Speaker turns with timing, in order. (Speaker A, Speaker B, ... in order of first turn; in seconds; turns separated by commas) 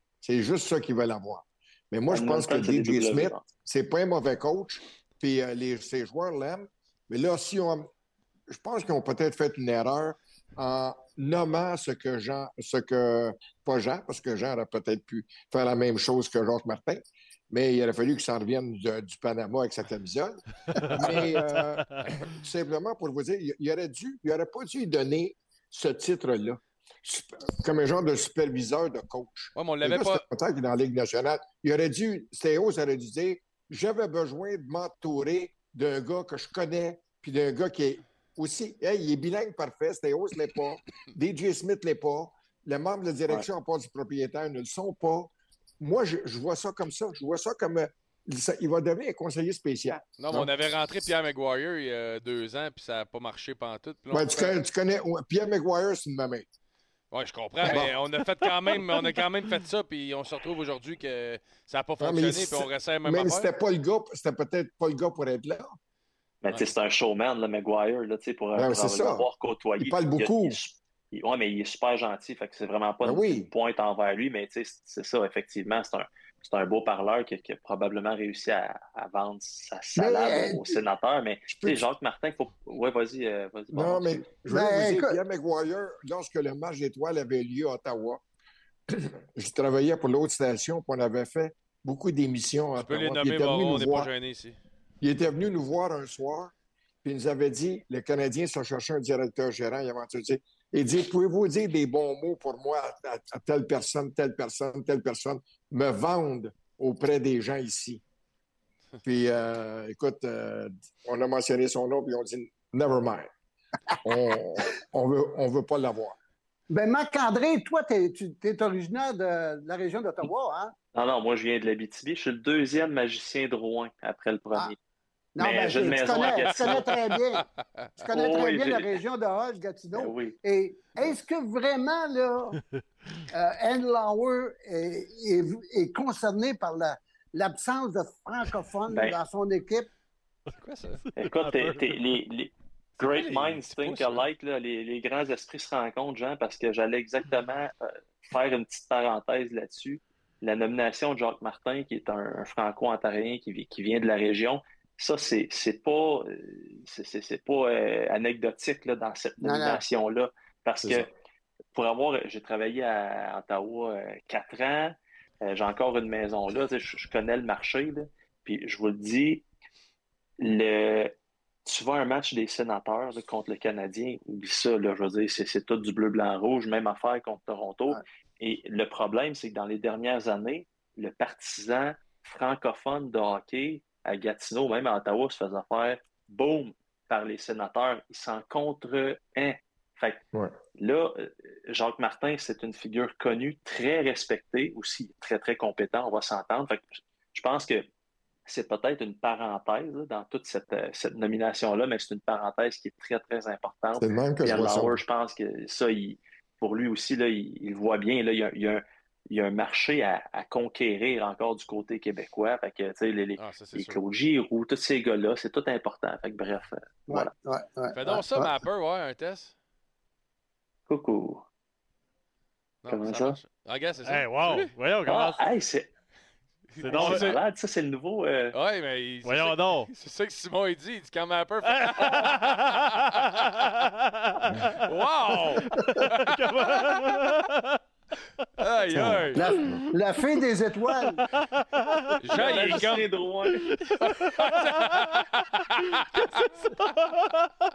Speaker A: 0.2-7.9, Speaker B: 2.1-3.5, Speaker A: 8.5-50.5, Speaker C: 20.8-21.9, Speaker D: 21.0-21.3, Speaker D: 29.5-30.2, Speaker D: 50.2-54.6, Speaker A: 54.1-56.5, Speaker D: 57.1-63.5, Speaker A: 57.6-58.0, Speaker C: 58.7-59.1, Speaker A: 62.0-65.8, Speaker B: 66.4-84.3, Speaker A: 68.5-70.6, Speaker A: 73.0-73.5, Speaker E: 80.0-80.8, Speaker A: 81.5-81.9, Speaker A: 83.7-88.2, Speaker E: 84.4-85.2, Speaker A: 88.9-94.1, Speaker D: 92.8-94.6, Speaker A: 95.0-96.5, Speaker A: 97.0-108.0, Speaker A: 109.0-113.3, Speaker A: 114.0-116.2, Speaker E: 116.7-120.7, Speaker B: 120.9-124.8, Speaker E: 125.3-127.4, Speaker B: 125.4-126.9, Speaker D: 126.1-127.2, Speaker D: 127.8-128.1, Speaker B: 128.1-129.0, Speaker E: 128.1-132.6, Speaker B: 129.9-130.4, Speaker E: 133.3-139.9, Speaker B: 138.9-139.2, Speaker D: 140.5-141.0, Speaker C: 141.0-142.0, Speaker B: 141.2-161.1, Speaker D: 143.0-144.2, Speaker E: 159.4-159.8, Speaker B: 161.7-169.4, Speaker B: 170.4-171.1, Speaker B: 171.6-190.2, Speaker B: 190.8-197.8, Speaker B: 198.5-217.3, Speaker A: 204.0-205.0, Speaker D: 213.4-214.0, Speaker E: 217.1-218.5, Speaker D: 217.9-219.5, Speaker B: 220.9-221.4, Speaker D: 222.8-224.7, Speaker B: 222.9-223.4, Speaker C: 224.0-225.4, Speaker B: 225.1-225.9, Speaker D: 226.7-227.4, Speaker C: 226.8-227.3, Speaker B: 226.9-228.5, Speaker D: 228.5-233.5, Speaker C: 229.2-229.9, Speaker C: 231.8-234.8, Speaker D: 234.8-237.3, Speaker C: 235.7-237.8, Speaker D: 238.6-239.5, Speaker A: 238.9-239.8, Speaker E: 239.3-241.2, Speaker C: 241.3-243.0, Speaker D: 242.2-243.1, Speaker B: 242.3-243.7, Speaker C: 243.6-245.2, Speaker D: 243.9-246.7, Speaker C: 246.2-247.5